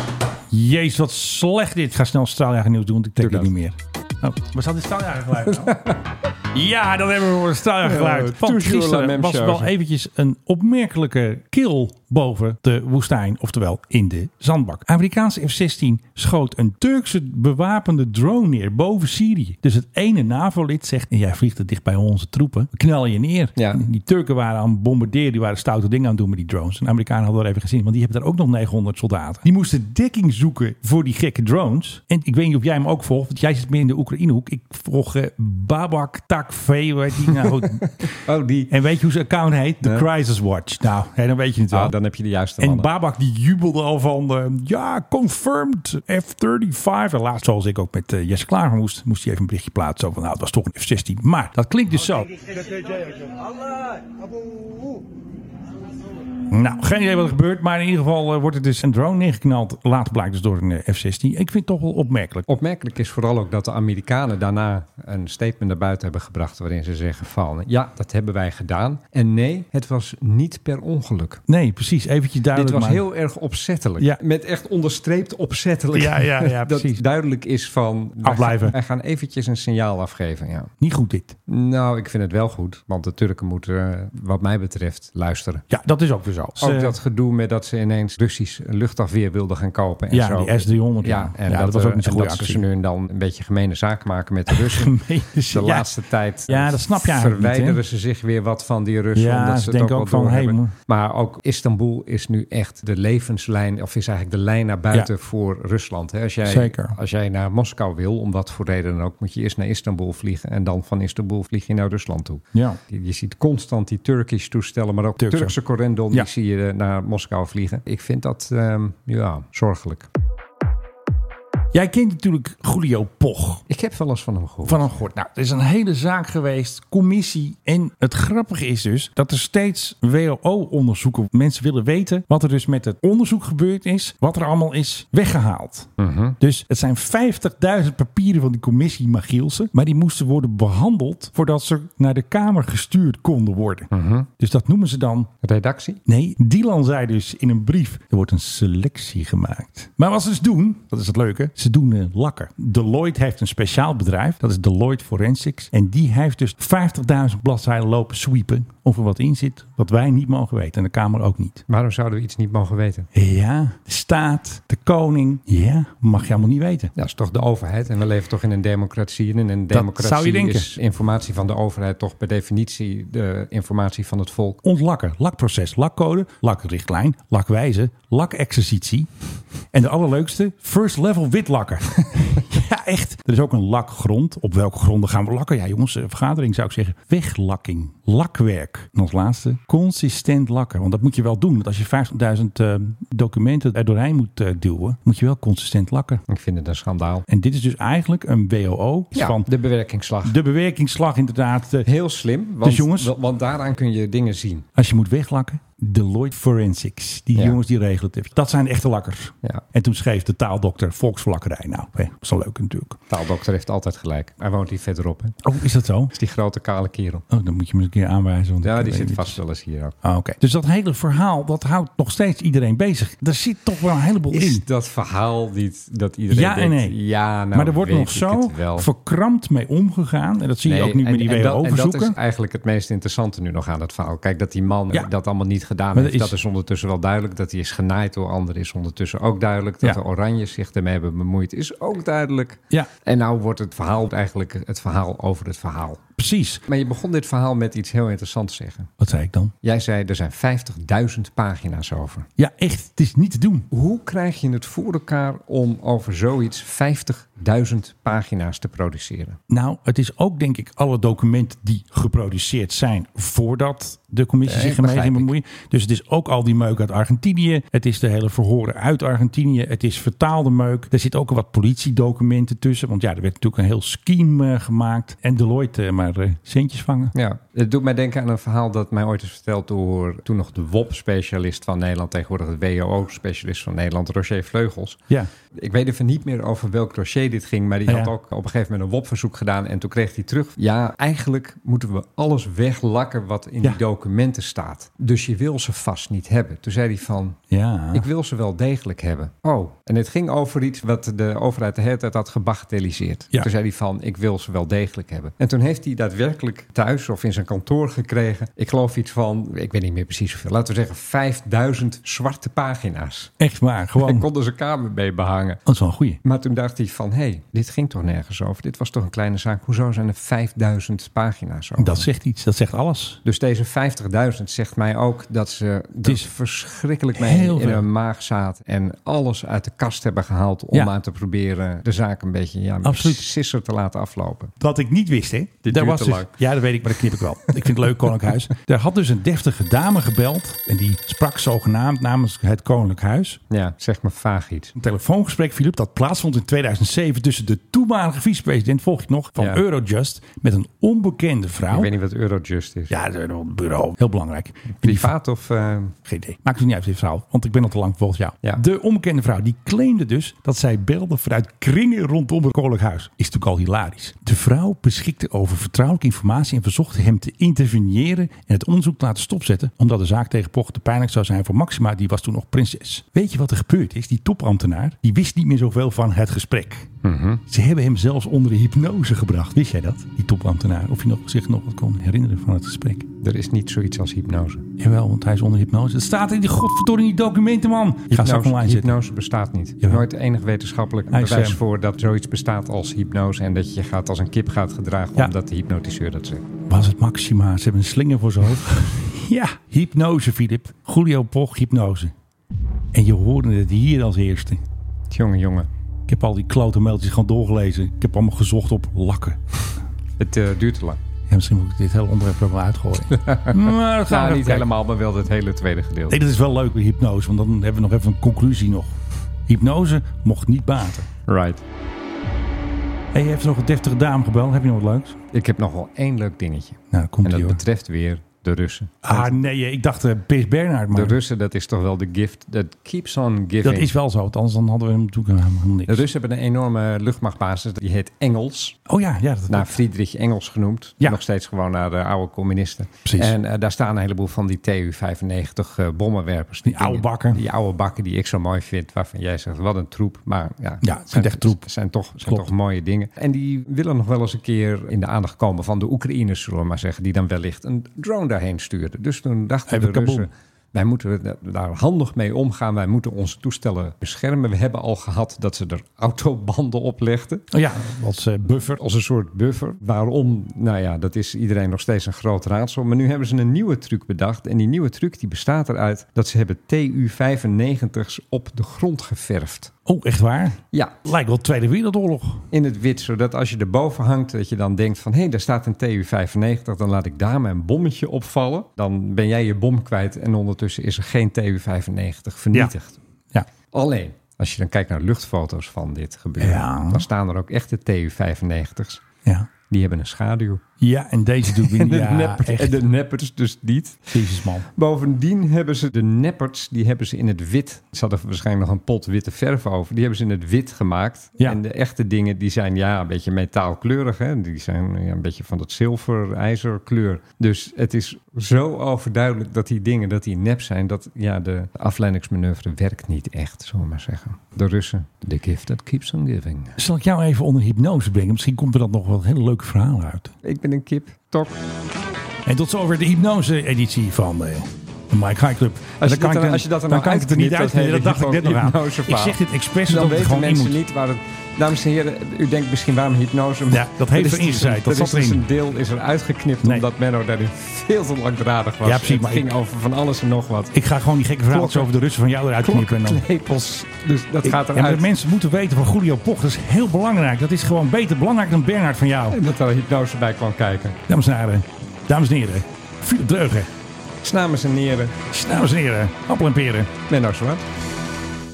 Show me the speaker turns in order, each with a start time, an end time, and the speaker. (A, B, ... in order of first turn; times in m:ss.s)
0:00.5-0:05.8 A
0:03.2-0:03.5 B
0:05.5-0:06.0 B
0:06.5-0:37.9 A
0:07.8-0:09.7 B
0:23.6-0:23.8 B
0:37.7-0:38.7 B
0:38.7-0:41.9 A
0:41.7-0:42.9 B
0:42.6-0:52.4 A
0:56.5-1:02.5 A
1:02.5-1:11.4 B
1:11.5-1:13.0 A
1:12.5-1:20.7 B
1:15.9-1:17.0 A
1:18.2-1:18.8 A
1:20.8-1:21.4 A
1:21.5-1:25.6 B
1:25.7-1:27.0 A
1:26.6-1:35.0 B
1:30.1-1:32.6 A
1:34.5-1:37.8 A
1:35.5-2:00.1 B
1:39.2-1:40.7 A
1:46.4-1:47.0 A
1:52.5-1:52.8 A
1:55.2-1:55.6 A
2:01.7-2:03.6 A
2:03.7-2:05.0 B
2:04.6-2:25.3 A
2:16.0-2:16.4 B
2:23.9-2:24.3 B
2:25.4-2:26.0 B
2:26.1-2:41.6 A
2:41.7-2:43.1 B
2:43.1-2:46.9 A
2:47.0-2:54.6 B
2:49.7-2:50.7 A
2:54.6-2:59.1 A
2:59.7-3:16.2 A
3:16.3-3:17.2 B
3:17.3-3:19.5 A
3:19.1-3:20.4 B
3:20.2-3:21.9 A
3:21.8-3:24.7 B
3:22.6-3:23.1 A
3:24.8-3:33.0 A
3:27.4-3:27.6 B
3:33.1-3:35.4 B
3:35.4-3:36.1 A
3:36.1-3:37.2 B
3:37.3-3:39.4 A
3:38.6-3:40.0 B
3:40.0-3:44.6 A
3:44.3-3:48.9 B
3:46.3-3:47.0 A
3:47.5-3:52.2 A
3:50.6-4:06.0 B
3:56.0-3:56.4 A
4:06.2-4:06.6 A
4:06.7-4:08.9 B
4:09.0-4:09.5 A
4:09.6-4:12.3 B
4:12.4-4:13.7 A
4:13.7-4:19.4 B
4:19.5-4:37.1 A
4:24.5-4:25.3 B
4:37.1-4:45.0 B
4:45.5-4:57.4 B
4:47.9-4:48.1 A
4:57.5-4:58.1 A
4:57.9-5:13.3 B
5:13.4-5:14.3 A
5:14.0-5:15.6 B
5:15.7-5:16.2 A
5:16.2-5:22.1 B
5:21.8-5:23.2 A
5:23.2-5:34.5 B
5:26.0-5:26.3 A
5:27.1-5:27.9 A
5:32.8-5:33.3 A
5:34.6-5:43.4 A
5:35.6-5:36.3 B
5:37.5-5:38.2 B
5:43.5-5:44.7 B
5:44.8-5:51.9 A
5:51.7-5:52.9 B
5:52.9-5:55.1 A
5:54.7-5:55.9 B
5:56.0-6:16.9 A
6:17.0-6:17.4 B
6:17.5-6:23.1 A
6:23.2-6:24.7 B
6:24.8-6:29.0 A
6:28.1-6:36.4 B
6:31.1-6:31.6 A
6:36.6-6:42.1 A
6:42.9-6:44.6 A
6:45.1-6:45.7 B
6:46.1-6:49.4 A
6:50.2-6:51.0 B
6:51.3-6:54.7 A
6:53.1-6:56.2 B
6:56.1-7:01.1 A
7:01.3-7:01.6 B
7:03.1-7:05.2 A
7:05.3-7:09.4 B
7:06.9-7:07.6 A
7:09.0-7:11.2 A
7:10.9-7:13.9 B
7:13.6-7:16.0 A
7:15.9-7:18.8 B
7:18.9-7:19.8 A
7:19.5-7:47.5 B
7:23.0-7:23.4 A
7:26.6-7:27.4 A
7:30.8-7:31.7 A
7:32.2-7:32.5 A
7:39.7-7:40.3 A
7:47.5-7:48.8 A
7:48.8-7:59.7 B
7:59.9-8:02.5 A
8:00.7-8:01.0 B
8:02.5-8:13.0 B
8:13.7-8:19.0 B
8:16.4-8:17.1 A
8:19.7-8:20.6 B
8:20.8-8:22.8 A
8:21.5-8:24.1 B
8:24.1-8:24.7 A
8:24.7-8:46.8 B
8:46.8-8:50.3 A
8:50.4-8:51.5 B
8:52.4-9:00.8 A
8:56.0-9:10.7 B
9:03.7-9:05.4 A
9:08.8-9:09.5 A
9:10.7-9:13.2 A
9:11.5-9:11.9 B
9:12.6-9:15.1 B
9:14.4-9:19.4 A
9:19.3-9:21.0 B
9:21.1-9:23.7 A
9:24.2-9:25.2 B
9:25.3-9:26.9 A
9:27.1-9:27.6 B